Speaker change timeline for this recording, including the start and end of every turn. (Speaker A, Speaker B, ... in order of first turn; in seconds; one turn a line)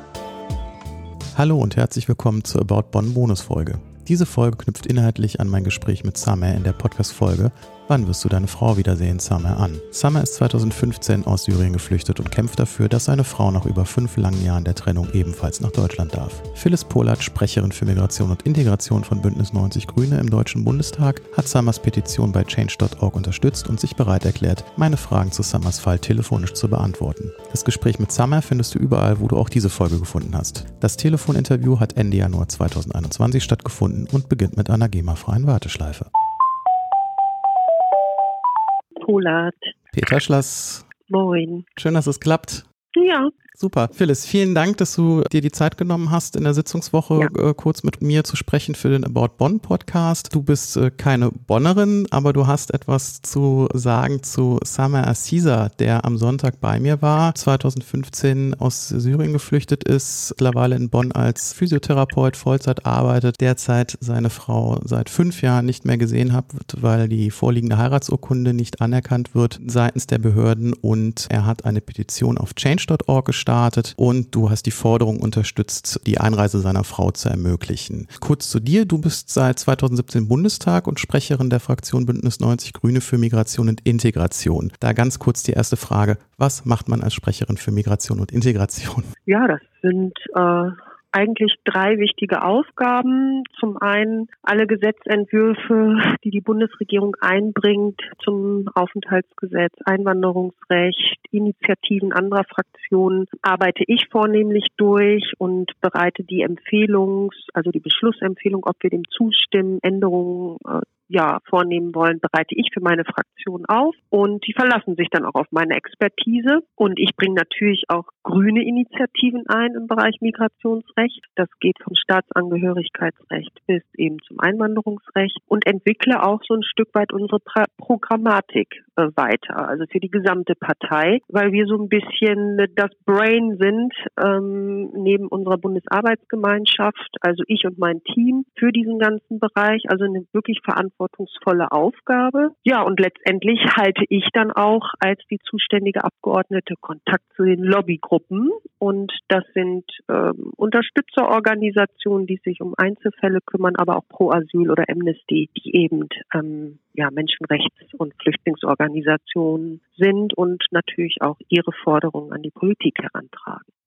Speaker A: 1.3-36.1
Speaker B: 39.0-39.7
Speaker A: 39.9-40.9
Speaker B: 41.1-41.6
Speaker A: 41.8-42.6
Speaker B: 42.9-43.3
Speaker A: 43.5-89.1
Speaker B: 89.3-163.7